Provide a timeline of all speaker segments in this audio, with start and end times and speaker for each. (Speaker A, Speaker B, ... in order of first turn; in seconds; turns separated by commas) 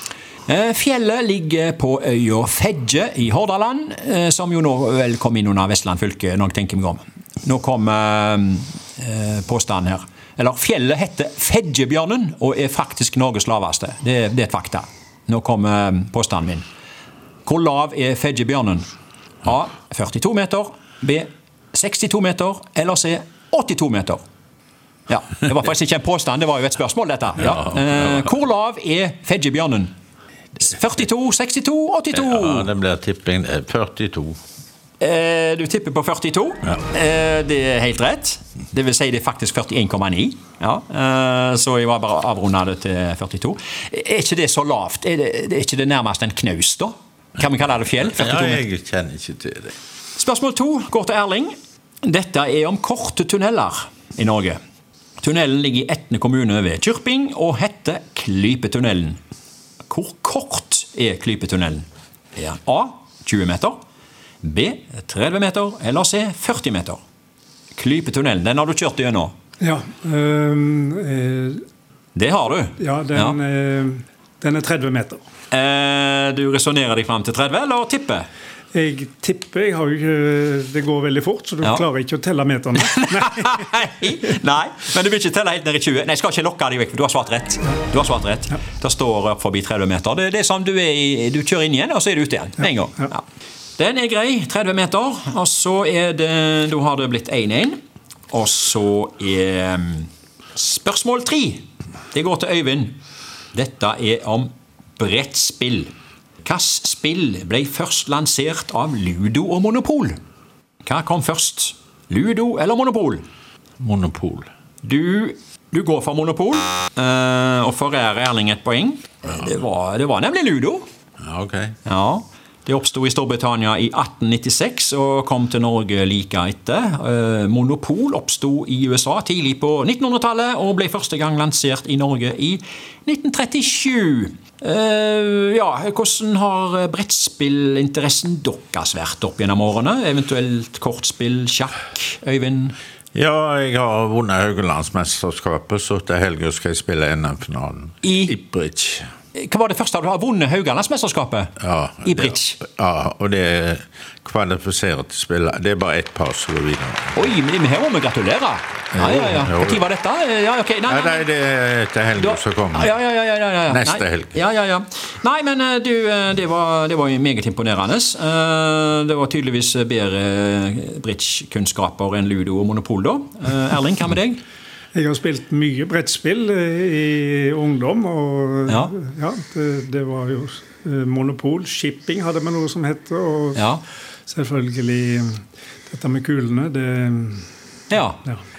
Speaker A: 0.5-16.6, Speaker A: 17.4-18.8, Speaker A: 19.4-24.2, Speaker A: 25.1-29.9, Speaker A: 30.6-32.7, Speaker B: 32.1-34.4, Speaker A: 35.0-48.6, Speaker B: 48.0-49.7, Speaker A: 50.1-54.6, Speaker A: 55.2-59.2, Speaker A: 59.9-61.8, Speaker A: 62.4-63.8, Speaker A: 64.4-67.0, Speaker A: 67.8-69.3, Speaker C: 69.6-71.6, Speaker A: 72.1-73.4, Speaker C: 72.8-75.2, Speaker A: 75.5-78.3, Speaker C: 78.7-83.7, Speaker A: 82.9-93.2, Speaker A: 93.8-102.9, Speaker A: 103.5-105.9, Speaker A: 106.4-110.2, Speaker A: 110.8-113.2, Speaker B: 113.8-114.5, Speaker A: 114.8-120.8, Speaker B: 121.2-121.8, Speaker A: 121.8-142.8, Speaker B: 143.1-149.1, Speaker A: 148.0-148.3, Speaker A: 149.3-152.6, Speaker B: 151.6-157.2, Speaker A: 157.1-161.2, Speaker B: 158.9-159.8, Speaker B: 160.9-162.9, Speaker A: 162.2-174.4, Speaker B: 163.7-164.3, Speaker C: 174.9-183.7, Speaker A: 183.5-183.8, Speaker C: 184.3-187.4, Speaker A: 187.9-188.2